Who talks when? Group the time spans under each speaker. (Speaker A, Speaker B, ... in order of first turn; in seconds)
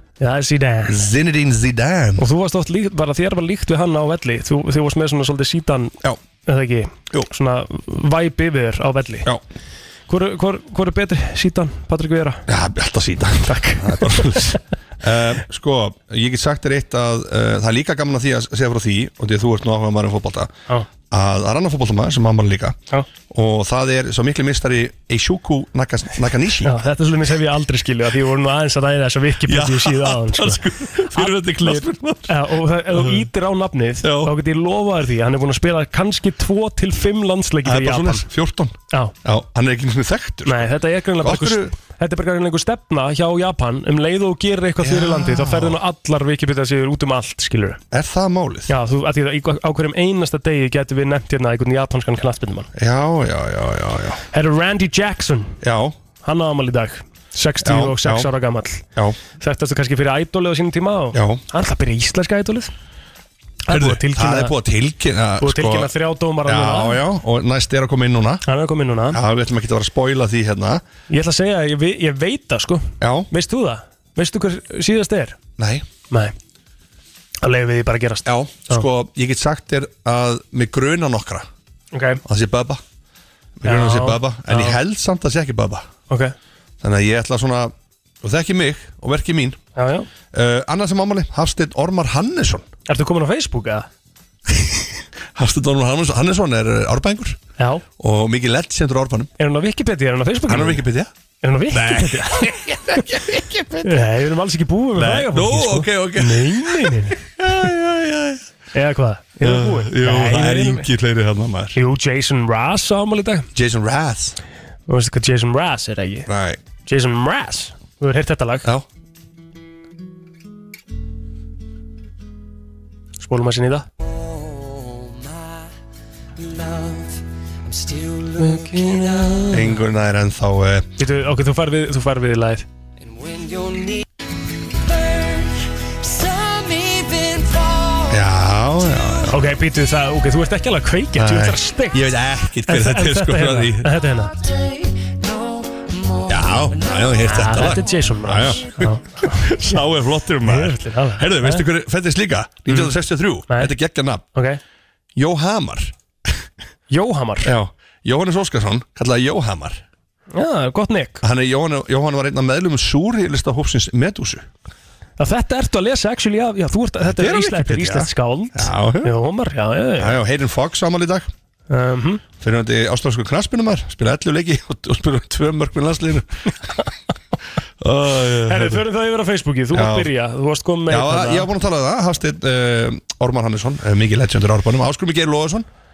Speaker A: 0.2-1.0, 2.2-9.3, 10.1-12.4, 13.5-14.6, 26.6-38.2, 40.5-47.8, 48.7-52.7, 54.3-55.6, 56.2-58.8, 59.4-62.7, 63.7-64.5, 65.4-67.0, 68.5-69.2, 71.1-75.4, 76.1-76.3, 77.4-78.8, 81.9-82.2, 83.6-84.8, 86.1-86.3, 89.8-90.1, 92.9-93.9, 97.6-97.8, 99.4-100.8, 101.4-103.0, 103.8-107.2, 108.7-110.9, 111.7-113.5, 114.9-116.3, 116.8-118.7, 123.2-123.9, 128.3-129.7, 131.0-132.7, 139.3-142.1, 142.7-144.4, 147.2-149.8, 150.4-151.7, 152.7-152.9, 154.3-154.6, 156.9-157.5, 160.3-161.2, 165.2-170.2, 171.7-172.2, 178.5-181.5
Speaker B: 0.8-2.2, 12.5-20.5, 21.1-22.8, 23.3-26.7, 29.4-33.2, 34.0-34.3, 37.6-41.7, 44.8-45.8, 47.9-48.7, 52.7-54.2, 55.6-56.0, 57.6-58.3, 61.1-61.4, 63.7-65.9, 66.4-68.4, 69.1-70.8, 73.0-73.3, 75.6-75.8, 78.2-81.5, 82.2-82.8, 83.6-85.8, 86.8-89.6, 90.3-92.7, 94.5-97.4, 98.0-99.3, 100.5-101.1, 101.7-104.1, 105.0-108.4, 109.4-111.8, 113.5-114.4, 116.3-116.6, 129.5-130.9, 138.1-139.4, 141.2-143.9, 146.2-154.2, 155.2-155.9, 157.4-159.8, 161.2-164.5, 167.0-169.1, 170.0-171.3, 172.4-176.7, 177.8-178.8, 179.7-180.1, 180.9-185.7
Speaker C: 126.7-127.1, 127.9-128.3, 133.2-134.0, 137.0-137.5